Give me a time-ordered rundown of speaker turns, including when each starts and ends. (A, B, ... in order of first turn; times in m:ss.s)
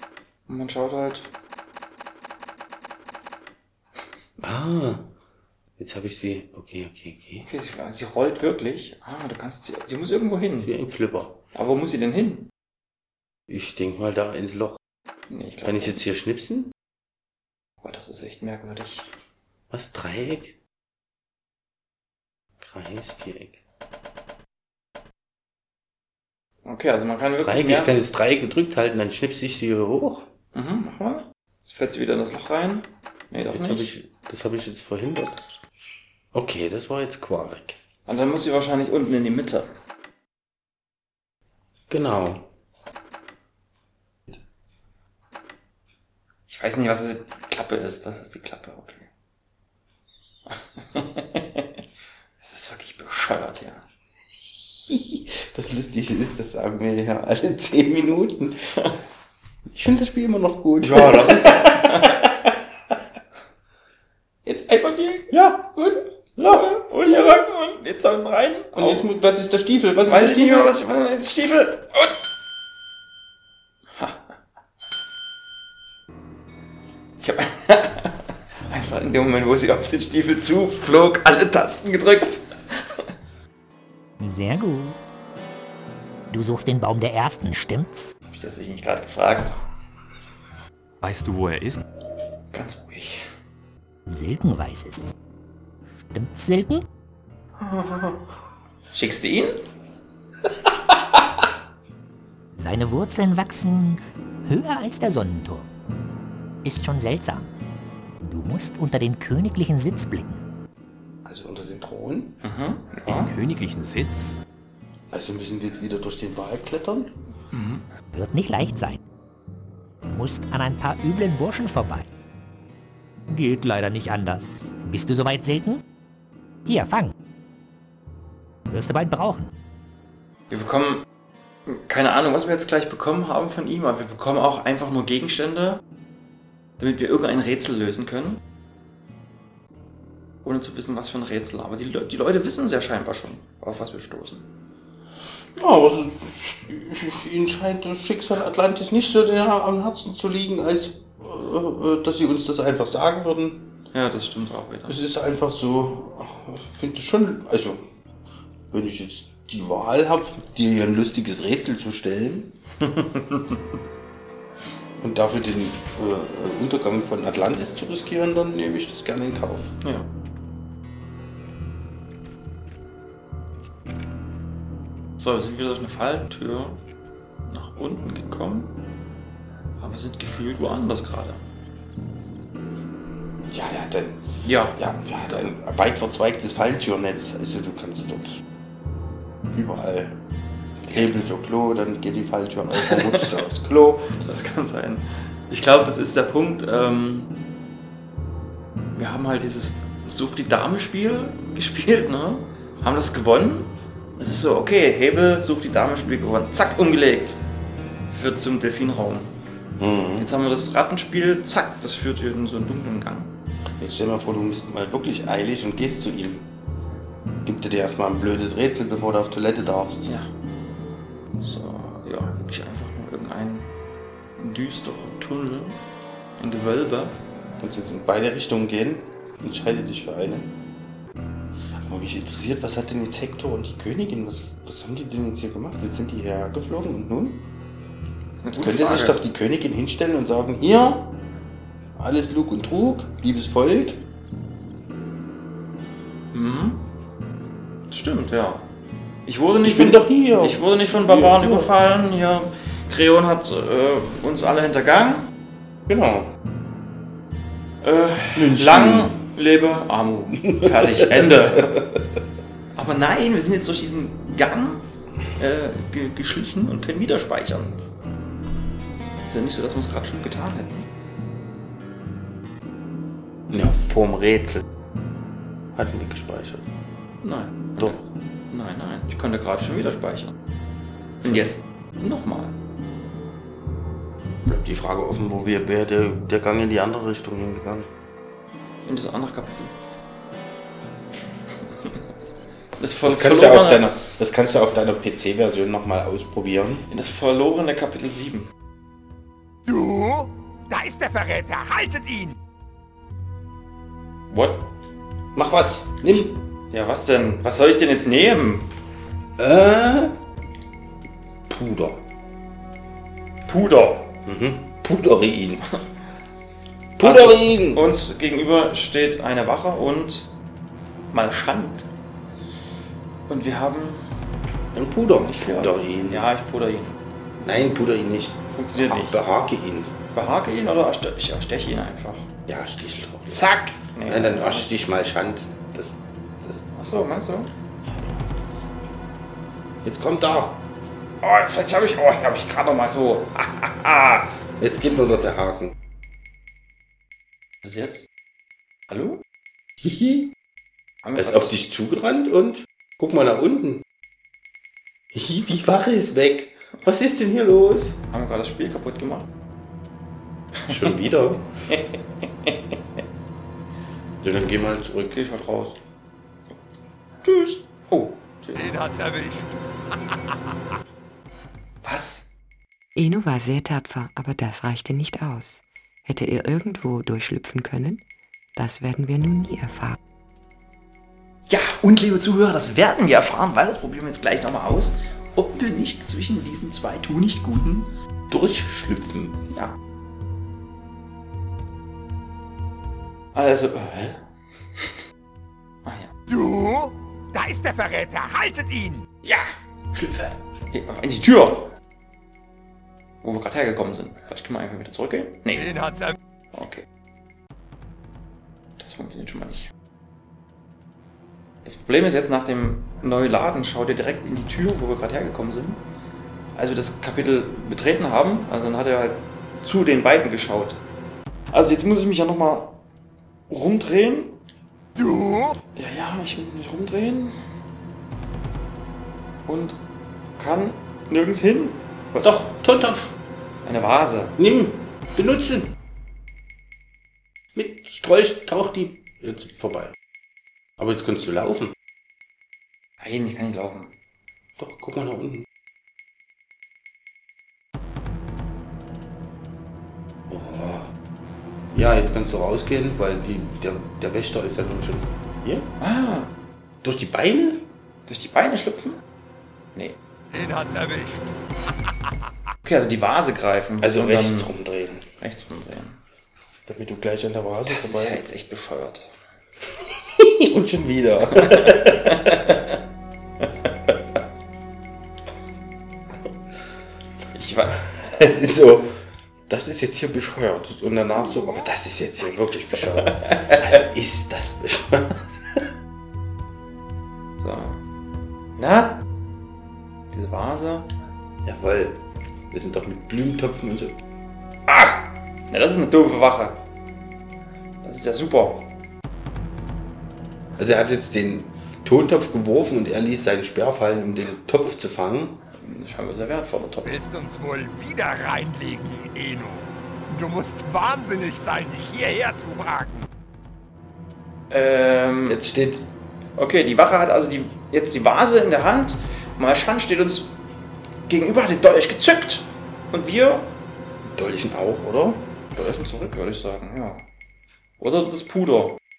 0:00.5-0:01.3 A
0:04.4-0:05.1 B
0:05.8-0:07.5 B
0:07.4-0:10.7 A
0:10.6-0:11.4 B
0:11.6-0:12.5 A
0:13.5-0:14.8 B
0:15.3-0:16.0 A
0:15.6-0:16.7 B
0:17.8-0:19.1 A
0:19.7-0:20.6 B
0:22.6-0:23.6 B
0:26.6-0:28.0 A
0:27.4-0:30.3 B
0:30.5-0:33.9 A
0:33.5-0:35.4 B
0:36.3-0:37.8 B
0:38.1-0:39.7 A
0:41.9-0:42.5 B
0:46.5-0:49.1 A
0:50.5-0:51.7 A
0:52.4-0:53.8 A
0:54.7-0:58.9 B
0:59.7-1:02.5 B
1:00.8-1:02.2 A
1:04.4-1:07.4 B
1:05.3-1:05.7 A
1:06.4-1:09.1 A
1:08.8-1:10.8 B
1:10.1-1:12.2 A
1:13.9-1:14.3 A
1:17.2-1:23.0 A
1:24.2-1:25.0 C
1:26.3-1:28.2 C
1:28.3-1:29.6 A
1:31.0-1:31.8 D
1:32.5-1:33.2 A
1:34.1-1:35.2 C
1:36.1-1:36.9 C
1:37.6-1:38.2 A
1:38.9-1:39.6 A
1:42.6-1:45.7 C
1:46.6-1:47.5 C
1:48.2-1:50.4 C
1:51.2-1:52.4 B
1:52.4-1:53.3 A
1:53.1-1:54.4 D
1:55.1-1:57.2 B
1:57.5-1:57.9 A
1:58.1-1:59.0 C
2:00.1-2:02.1 C
2:03.3-2:05.8 C
2:06.7-2:07.1 C
2:08.7-2:09.5 C
2:10.5-2:11.0 A
2:11.7-2:15.8 A
2:16.8-2:18.4 A
2:20.4-2:24.4 A
2:25.6-2:33.7 B
2:33.9-2:35.0 A
2:34.9-2:37.9 B
2:38.7-2:42.6 B
2:42.9-2:43.4 A
2:45.0-2:49.7 B
2:49.8-2:50.1 A
2:55.2-2:56.8 A
2:57.5-2:58.7 A
2:59.8-3:01.4 A
3:03.5-3:04.2 B
3:04.4-3:05.5 A
3:04.8-3:08.4 B
3:09.5-3:10.2 B
3:10.8-3:14.1 B
3:12.7-3:13.4 A
3:14.1-3:17.3 A
3:19.0-3:27.4 A
3:28.1-3:29.3 A
3:29.8-3:30.3 B
3:30.2-3:33.3 A
3:33.8-3:36.5 B
3:37.4-3:40.2 B
3:41.4-3:43.7 A
3:44.4-3:45.8 A
3:46.4-3:47.2 A
3:47.6-3:50.5 B
3:51.8-3:57.5 B
3:58.4-3:59.2 A
3:58.6-4:01.2 B
4:02.0-4:04.1 B
4:06.3-4:06.9 A
4:07.9-4:08.7 A
4:09.3-4:15.3 A
4:09.6-4:11.7 B
4:15.9-4:16.3 B
4:17.8-4:21.9 A
4:18.3-4:19.2 B
4:20.6-4:21.9 B
4:22.8-4:24.8 A
4:25.4-4:27.8 A
4:29.3-4:30.9 A
4:33.5-4:34.6 B
4:35.8-4:36.7 B
4:37.2-4:40.3 A
4:41.2-4:42.5 A
4:44.5-4:47.9 B
4:48.8-4:49.8 A
4:52.8-4:53.9 A
4:53.0-4:56.9 B
4:56.9-4:58.5 A
4:59.7-5:02.4 E
5:04.3-5:04.7 A
5:05.4-5:06.4 B
5:06.2-5:08.7 A
5:09.4-5:10.2 B
5:11.5-5:12.0 B
5:13.5-5:14.2 A
5:14.3-5:15.7 B
5:17.0-5:17.9 B
5:17.0-5:20.3 A
5:21.1-5:21.9 A
5:23.3-5:24.0 A
5:24.7-5:26.3 B
5:25.2-5:26.9 A
5:27.4-5:29.9 B
5:28.5-5:29.2 A
5:30.1-5:32.3 A
5:32.5-5:33.5 B
5:33.3-5:34.7 A
5:34.1-5:37.1 B
5:36.8-5:37.5 A
5:39.8-5:40.6 B
5:41.2-5:44.4 A
5:44.6-5:45.7 B
5:47.6-5:48.1 A
5:48.9-5:49.2 A
5:49.8-5:50.3 B
5:51.0-5:51.5 A
5:51.2-5:53.8 B
5:55.1-5:58.0 B
5:58.1-5:59.3 A
6:00.7-6:01.5 B
6:01.7-6:02.7 A
6:04.2-6:05.2 B
6:05.1-6:05.8 A
6:07.2-6:08.7 A
6:08.6-6:10.4 E
6:11.8-6:12.3 A
6:13.0-6:18.0 F
6:18.6-6:20.0 F
6:21.5-6:27.9 A
6:28.3-6:29.4 B
6:33.4-6:34.2 A
6:35.8-6:36.1 A
6:36.3-6:39.1 E
6:39.2-6:41.7 A
6:43.2-6:45.7 A
6:45.5-6:46.2 E
6:46.5-6:46.8 A
6:48.8-6:49.7 A
6:51.6-6:55.8 A
6:56.6-7:00.8 A
7:01.5-7:02.8 A
7:03.5-7:04.4 A
7:05.0-7:05.6 E
7:05.8-7:07.4 A
7:09.5-7:09.8 A
7:10.4-7:12.4 A
7:12.2-7:13.2 B
7:13.6-7:14.4 A
7:14.4-7:15.7 B
7:17.6-7:20.0 B
7:20.8-7:21.8 B
7:23.0-7:23.9 A
7:24.6-7:25.5 B
7:30.3-7:30.9 B
7:31.7-7:35.7 B
7:35.8-7:36.3 A
7:36.8-7:37.7 B
7:38.1-7:39.0 A
7:40.3-7:41.3 E
7:42.6-7:44.5 A
7:43.8-7:45.1 B
7:45.2-7:46.0 A
7:46.7-7:48.2 B
7:47.7-7:49.1 A
7:50.2-7:52.5 B
7:51.4-7:52.8 A
7:57.4-7:58.5 A
7:58.0-7:58.9 B
7:59.5-8:05.7 B
8:03.3-8:03.6 A
8:07.4-8:07.8 A
8:08.6-8:09.0 A
8:10.1-8:10.9 A
8:11.4-8:14.0 B
8:14.7-8:16.6 A
8:17.8-8:18.7 A
8:20.6-8:25.4 B
8:25.6-8:27.0 A
8:26.8-8:33.1 E
8:34.5-8:35.4 A
8:35.3-8:35.9 B
8:36.4-8:40.4 A
8:41.1-8:43.5 A
8:44.1-8:46.1 B
8:45.8-8:47.0 A
8:47.8-8:48.8 A